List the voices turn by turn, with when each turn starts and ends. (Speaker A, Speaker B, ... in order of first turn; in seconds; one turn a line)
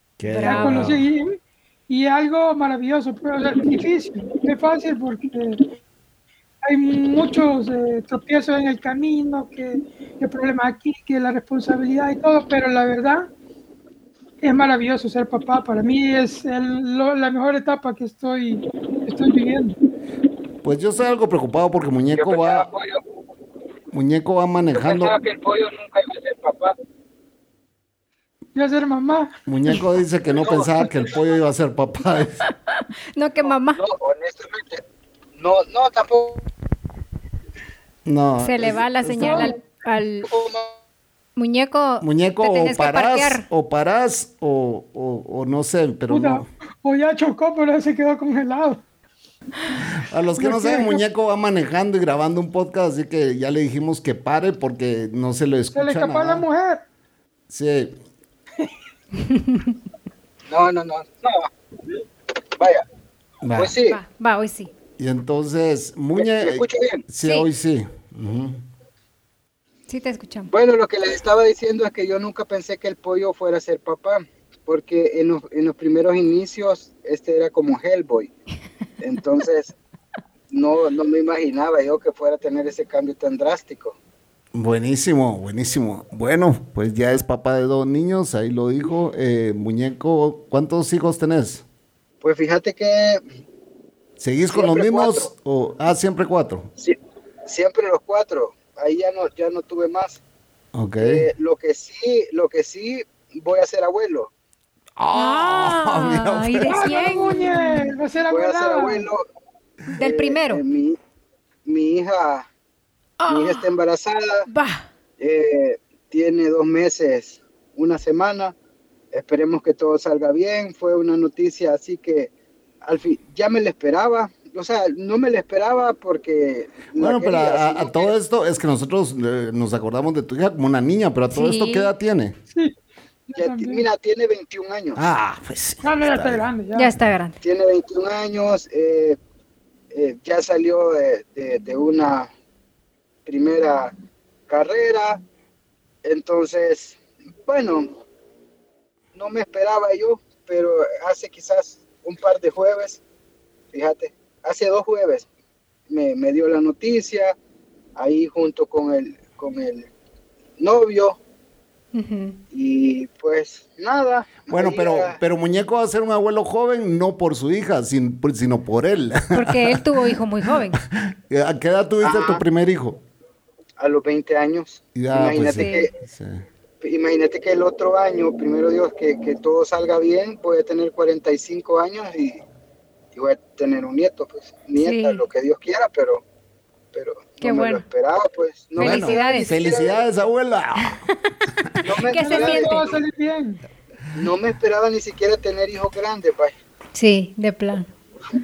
Speaker A: 0.2-1.1
Speaker B: 0.3-1.0
Speaker C: 0.4-5.6
Speaker C: 6.6-13.3
Speaker C: 14.4-19.8
Speaker A: 20.6-22.7
Speaker D: 22.1-23.0
Speaker A: 23.9-25.1
Speaker D: 24.8-26.8
Speaker C: 28.6-29.7
Speaker A: 29.5-32.4
Speaker D: 30.4-31.1
Speaker B: 32.7-33.8
Speaker D: 33.4-34.8
Speaker D: 35.4-36.4
Speaker A: 38.0-39.5
Speaker B: 38.4-40.3
Speaker C: 39.2-39.6
Speaker D: 40.2-40.8
Speaker B: 41.4-43.5
Speaker A: 42.0-46.5
Speaker C: 46.1-48.8
Speaker A: 49.8-56.5
Speaker C: 50.4-51.0
Speaker C: 55.7-56.8
Speaker A: 57.5-57.9
Speaker D: 60.5-61.5
Speaker D: 62.6-62.8
Speaker A: 63.4-63.7
Speaker D: 63.6-64.0
Speaker B: 63.9-64.7
Speaker A: 65.0-68.6
Speaker D: 66.2-67.0
Speaker B: 69.9-70.5
Speaker D: 70.5-78.3
Speaker D: 79.0-79.8
Speaker D: 80.5-84.0
Speaker A: 84.5-91.6
Speaker D: 92.2-93.2
Speaker A: 94.2-96.7
Speaker D: 94.5-95.3
Speaker D: 96.8-100.2
Speaker A: 100.7-101.2
Speaker D: 101.0-104.3
Speaker A: 105.0-106.8
Speaker B: 105.1-107.9
Speaker C: 106.6-109.1
Speaker D: 108.3-109.2
Speaker B: 109.9-110.6
Speaker D: 110.0-111.0
Speaker D: 111.6-112.5
Speaker B: 113.2-113.7
Speaker D: 113.3-114.5
Speaker B: 114.5-114.9
Speaker D: 115.2-118.5
Speaker D: 119.1-122.3
Speaker D: 122.8-128.1
Speaker A: 127.0-132.4
Speaker B: 131.3-131.9
Speaker C: 132.5-132.8
Speaker C: 133.3-133.9
Speaker D: 133.3-135.0
Speaker A: 135.0-136.5
Speaker C: 135.8-136.9
Speaker B: 136.8-137.4
Speaker D: 137.4-139.2
Speaker D: 139.9-142.3
Speaker D: 143.2-143.9
Speaker D: 144.5-145.2
Speaker D: 146.0-148.0
Speaker D: 149.1-153.0
Speaker D: 153.7-155.3
Speaker D: 155.9-157.3
Speaker D: 158.0-159.9
Speaker D: 160.6-161.2
Speaker B: 161.9-162.4
Speaker D: 162.5-165.2
Speaker A: 164.5-169.8
Speaker B: 169.3-170.8
Speaker A: 171.1-173.0
Speaker D: 172.0-172.4
Speaker D: 173.8-175.9
Speaker A: 174.9-176.4
Speaker B: 175.5-175.9
Speaker D: 176.8-182.4
Speaker D: 183.1-186.2
Speaker B: 184.8-185.2
Speaker D: 186.9-190.1
Speaker B: 187.4-187.8
Speaker B: 188.8-189.5
Speaker A: 188.8-191.0
Speaker D: 191.8-192.8
Speaker B: 192.0-192.9
Speaker C: 192.1-193.6
Speaker D: 194.1-196.6
Speaker B: 196.9-197.9